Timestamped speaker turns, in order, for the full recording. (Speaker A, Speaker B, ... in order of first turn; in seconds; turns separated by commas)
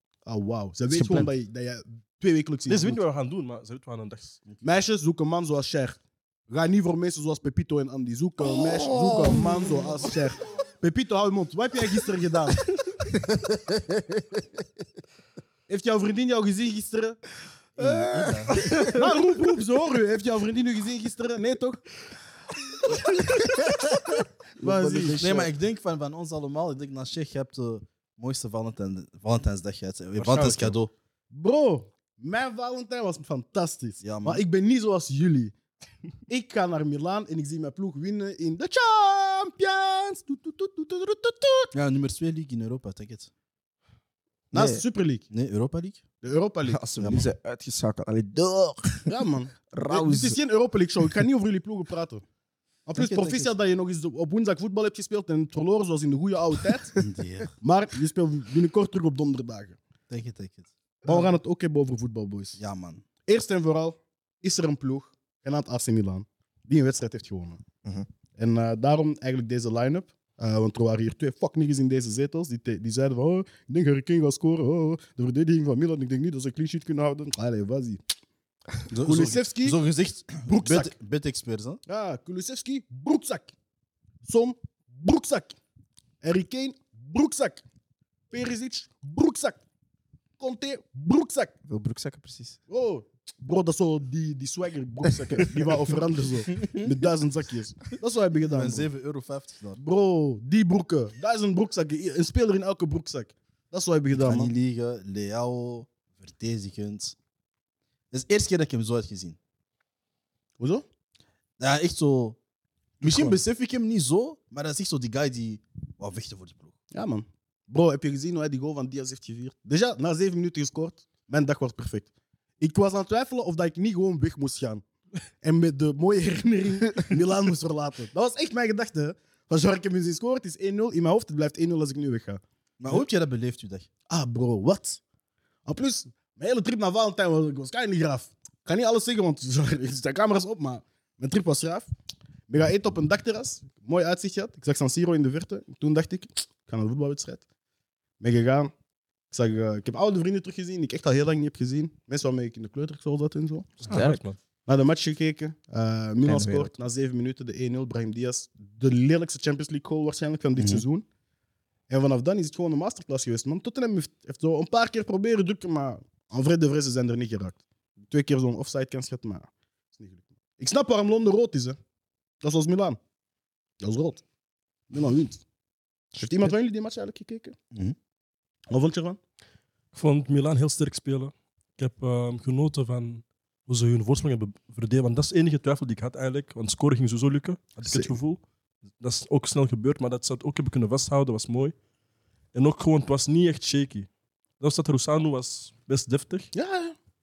Speaker A: 0.2-3.0, Speaker B: 0.9-1.3, Speaker C: 2.7-4.4, Speaker A: 4.6-12.6, Speaker B: 8.8-9.8, Speaker D: 9.2-9.4, Speaker A: 15.7-17.2, Speaker B: 17.8-18.9, Speaker D: 17.8-18.6, Speaker A: 18.6-21.8, Speaker B: 23.2-25.5, Speaker A: 24.6-25.4, Speaker D: 25.1-30.9, Speaker C: 30.2-30.8, Speaker A: 31.3-35.5, Speaker D: 34.0-34.4, Speaker A: 36.3-41.7, Speaker D: 41.7-43.3, Speaker B: 44.5-44.8, Speaker A: 44.5-45.2, Speaker D: 45.3-46.0, Speaker A: 46.2-46.8, Speaker B: 46.7-49.1, Speaker D: 47.0-47.3, Speaker A: 49.0-52.2, Speaker B: 49.7-50.4, Speaker A: 52.9-56.9, Speaker D: 53.0-53.5, Speaker D: 57.0-57.5, Speaker A: 57.6-59.8, Speaker D: 60.1-60.7, Speaker A: 61.0-62.6, Speaker D: 62.6-63.0, Speaker A: 63.2-67.6, Speaker A: 68.4-78.0, Speaker D: 78.9-81.8, Speaker A: 79.0-79.8, Speaker A: 80.4-80.9, Speaker A: 81.8-83.5, Speaker A: 84.2-85.6, Speaker A: 86.2-87.6, Speaker A: 88.3-89.6, Speaker A: 90.4-91.5, Speaker B: 91.7-92.6, Speaker A: 92.7-98.9, Speaker B: 95.3-95.7, Speaker D: 96.6-96.9, Speaker D: 98.4-99.8, Speaker A: 99.8-104.5, Speaker D: 104.1-107.1, Speaker D: 108.1-109.4, Speaker A: 110.6-110.8, Speaker D: 111.6-112.4, Speaker A: 113.0-113.4, Speaker D: 113.0-116.7, Speaker A: 116.9-124.8, Speaker A: 125.4-132.4, Speaker D: 132.8-133.9, Speaker A: 134.1-135.0, Speaker A: 135.7-141.9, Speaker A: 142.5-147.4, Speaker A: 148.2-148.7, Speaker A: 149.3-153.9, Speaker C: 153.8-154.4, Speaker B: 153.9-154.2, Speaker A: 154.7-161.1, Speaker B: 156.2-156.7, Speaker D: 160.6-160.8, Speaker A: 161.9-171.8, Speaker A: 172.4-173.0, Speaker A: 173.8-174.2, Speaker A: 174.9-175.4, Speaker A: 176.1-177.6, Speaker A: 178.7-179.2, Speaker C: 179.9-188.4, Speaker A: 187.8-188.2, Speaker C: 189.0-191.7, Speaker C: 192.5-194.1, Speaker C: 194.6-196.5, Speaker A: 196.5-196.9